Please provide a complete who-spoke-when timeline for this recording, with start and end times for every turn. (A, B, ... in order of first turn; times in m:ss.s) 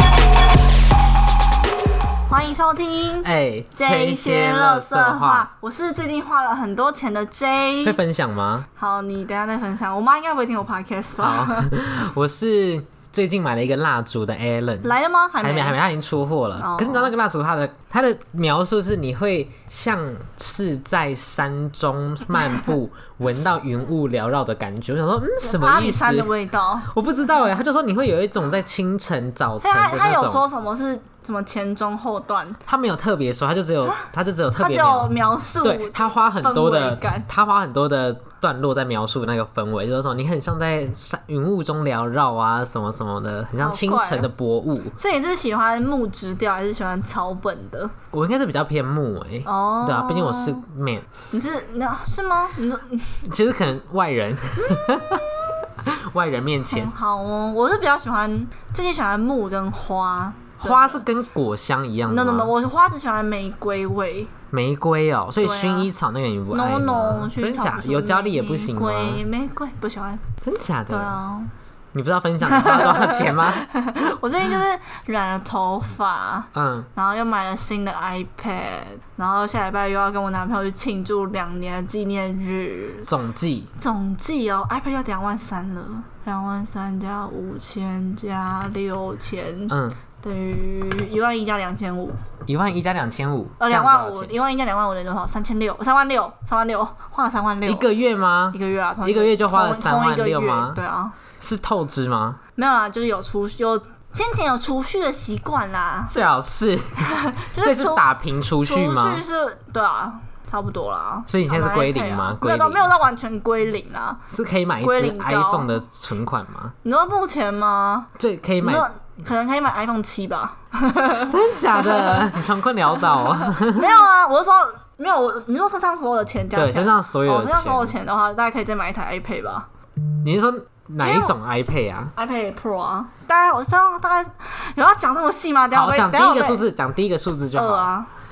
0:02.3-0:08.0 A
0:03.2-0:05.5 B
0:07.8-0:08.7 B
0:08.8-0:11.7 A
0:11.2-0:26.3 B
0:14.8-0:15.8 A
0:16.6-0:17.1 A
0:25.4-0:27.0 A
0:26.9-0:30.4 B
0:29.6-0:32.6 A
0:32.7-0:45.0 B
0:34.6-0:37.3 A
0:43.6-0:44.3 A
0:45.0-0:47.9 A
0:48.1-0:51.1 B
0:49.4-0:50.6 A
0:51.3-0:53.2 A
0:53.2-0:55.3 B
0:54.7-0:55.2 A
0:55.8-0:56.9 B
0:56.7-1:01.0 A
1:00.6-1:02.5 B
1:02.1-1:04.4 A
1:04.5-1:09.2 B
1:05.4-1:05.9 A
1:06.5-1:10.3 A
1:10.4-1:11.2 B
1:10.9-1:11.5 A
1:11.9-1:13.7 B
1:12.4-1:23.1 A
1:16.5-1:16.9 B
1:23.1-1:23.7 B
1:23.8-1:32.2 A
1:29.7-1:30.0 B
1:32.5-1:34.3 B
1:33.6-1:37.9 A
1:37.6-1:40.8 B
1:38.5-1:41.2 A
1:41.4-1:42.4 B
1:42.6-1:46.1 A
1:46.1-1:49.2 B
1:47.0-1:48.0 A
1:48.6-1:54.2 A
1:51.3-1:52.9 B
1:54.3-1:56.8 B
1:54.8-1:55.7 A
1:56.8-2:02.4 A
1:58.2-1:58.9 B
2:01.3-2:04.0 B
2:02.9-2:09.7 A
2:06.5-2:08.0 B
2:10.2-2:12.1 B
2:11.0-2:11.4 A
2:12.2-2:16.7 A
2:15.7-2:17.9 B
2:17.5-2:18.1 A